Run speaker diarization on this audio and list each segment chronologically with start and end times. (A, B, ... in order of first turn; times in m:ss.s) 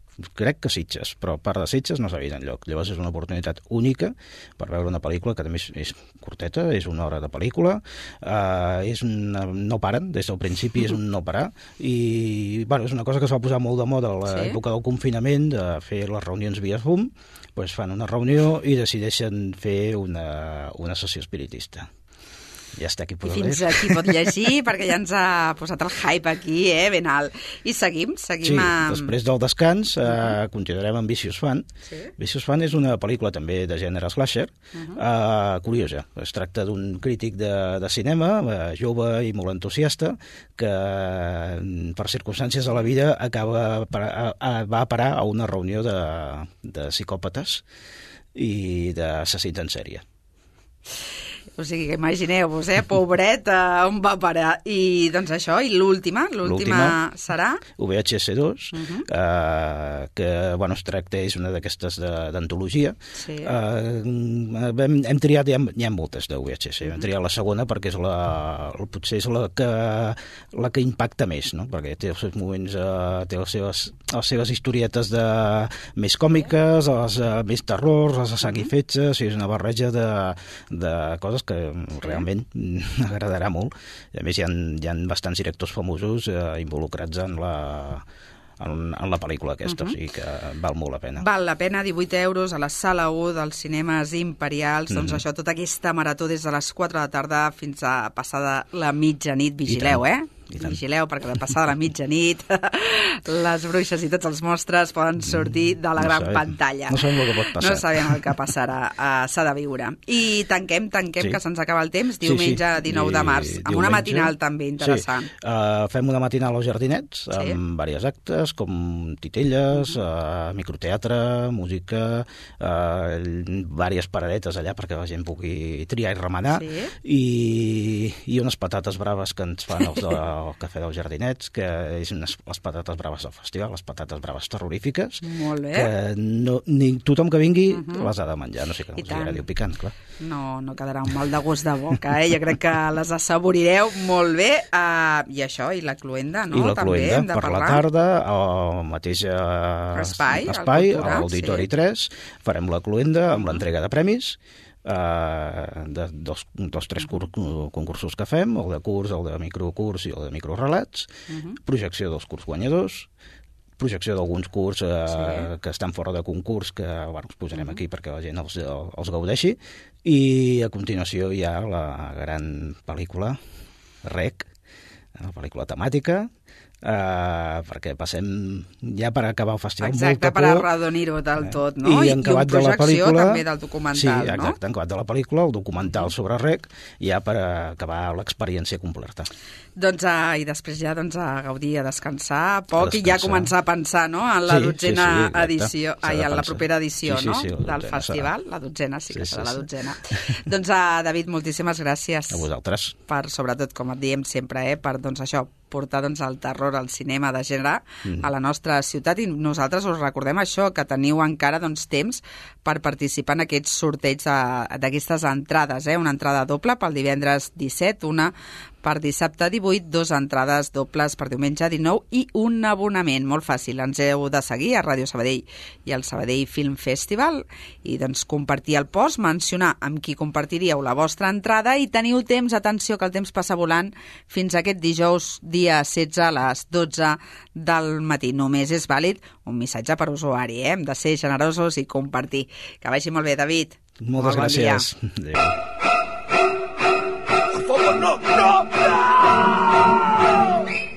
0:00.2-0:21.9 A
0:14.3-0:14.6 B
0:22.8-0:24.3 A
0:23.2-0:29.1 B
0:28.4-0:47.6 A
0:31.9-0:32.1 B
0:34.8-0:35.0 B
0:48.4-0:50.0 A
0:51.6-0:57.6 B
0:56.4-0:57.0 A
0:57.8-1:28.1 A
0:58.7-0:59.1 B
1:03.2-1:03.6 B
1:18.4-1:18.7 B
1:28.6-1:31.3 A
1:29.7-1:30.0 B
1:31.2-1:55.3 B
1:34.9-1:35.2 A
1:39.7-1:41.6 A
1:45.2-1:48.5 A
1:52.2-2:20.0 A
1:57.3-1:57.6 B
1:59.7-2:00.0 B
2:06.5-2:06.9 B
2:15.2-2:15.9 B
2:17.7-2:18.1 B
2:19.0-2:19.4 B
2:20.2-2:27.8 B
2:26.5-2:43.1 A
2:29.9-2:31.7 B
2:33.3-2:33.6 B
2:41.3-2:41.6 B
2:43.8-2:53.4 A
2:45.1-2:45.5 B
2:47.6-2:47.8 B
2:54.0-2:54.5 A
2:55.2-2:56.3 A
2:56.8-3:00.7 A
2:59.8-3:04.6 B
3:01.4-3:09.3 A
3:09.8-3:22.5 B
3:12.8-3:13.5 A
3:14.5-3:18.3 A
3:19.1-3:20.4 A
3:22.3-3:23.0 A
3:23.1-4:04.9 B
3:28.0-3:28.3 A
4:04.0-4:05.6 A